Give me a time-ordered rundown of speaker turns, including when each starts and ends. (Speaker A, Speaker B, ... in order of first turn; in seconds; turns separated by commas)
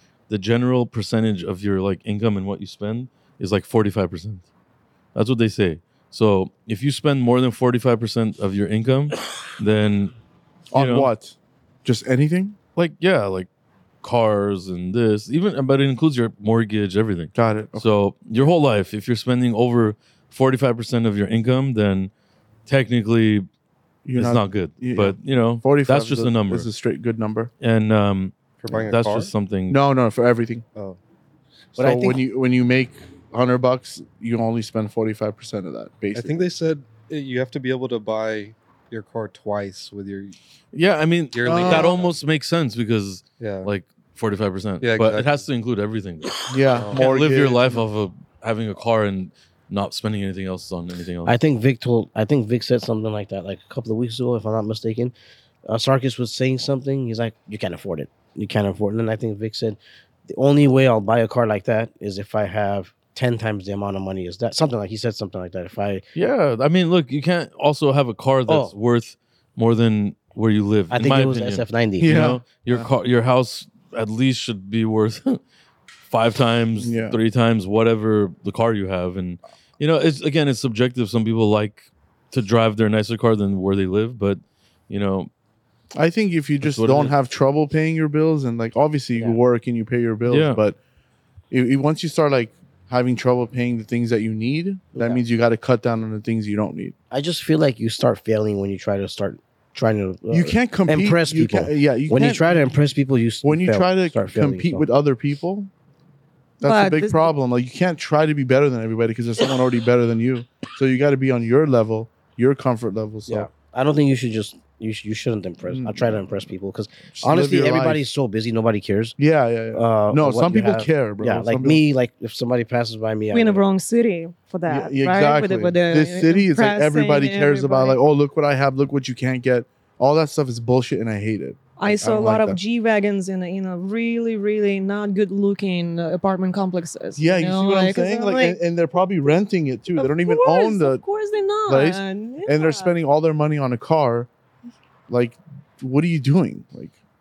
Speaker A: 0.3-4.4, Speaker A: 5.2-10.1, Speaker B: 10.7-12.6, Speaker A: 10.7-11.1, Speaker A: 12.8-13.5, Speaker A: 14.0-22.1, Speaker B: 17.4-17.9, Speaker A: 22.7-23.5, Speaker B: 24.1-27.5, Speaker A: 24.2-26.7, Speaker A: 27.6-29.8, Speaker C: 28.6-29.3, Speaker B: 29.7-30.6, Speaker D: 31.8-32.2, Speaker B: 31.8-36.4, Speaker C: 36.1-40.4, Speaker A: 40.7-51.4, Speaker C: 41.3-42.1, Speaker B: 41.5-42.0, Speaker C: 43.4-43.7, Speaker C: 44.8-45.4, Speaker B: 46.5-47.8, Speaker C: 46.7-47.1, Speaker D: 51.2-55.1, Speaker D: 55.7-66.0, Speaker A: 66.2-75.4, Speaker D: 68.5-68.7, Speaker D: 70.9-72.2, Speaker B: 72.0-72.9, Speaker A: 76.1-85.3, Speaker B: 76.8-77.2, Speaker B: 86.0-90.8, Speaker A: 86.6-87.2, Speaker A: 90.3-90.6, Speaker B: 91.5-97.0, Speaker D: 95.0-95.2, Speaker D: 97.1-104.8, Speaker B: 100.3-102.7, Speaker B: 103.4-105.7, Speaker B: 106.6-113.5, Speaker E: 106.6-107.3, Speaker D: 113.3-119.2, Speaker B: 115.7-116.2, Speaker B: 117.1-118.1, Speaker B: 119.2-121.8, Speaker D: 119.7-123.6, Speaker E: 123.3-128.0, Speaker B: 124.7-132.6, Speaker E: 131.8-138.6, Speaker B: 137.2-141.0, Speaker E: 140.0-143.0, Speaker B: 141.7-144.3, Speaker B: 145.1-147.0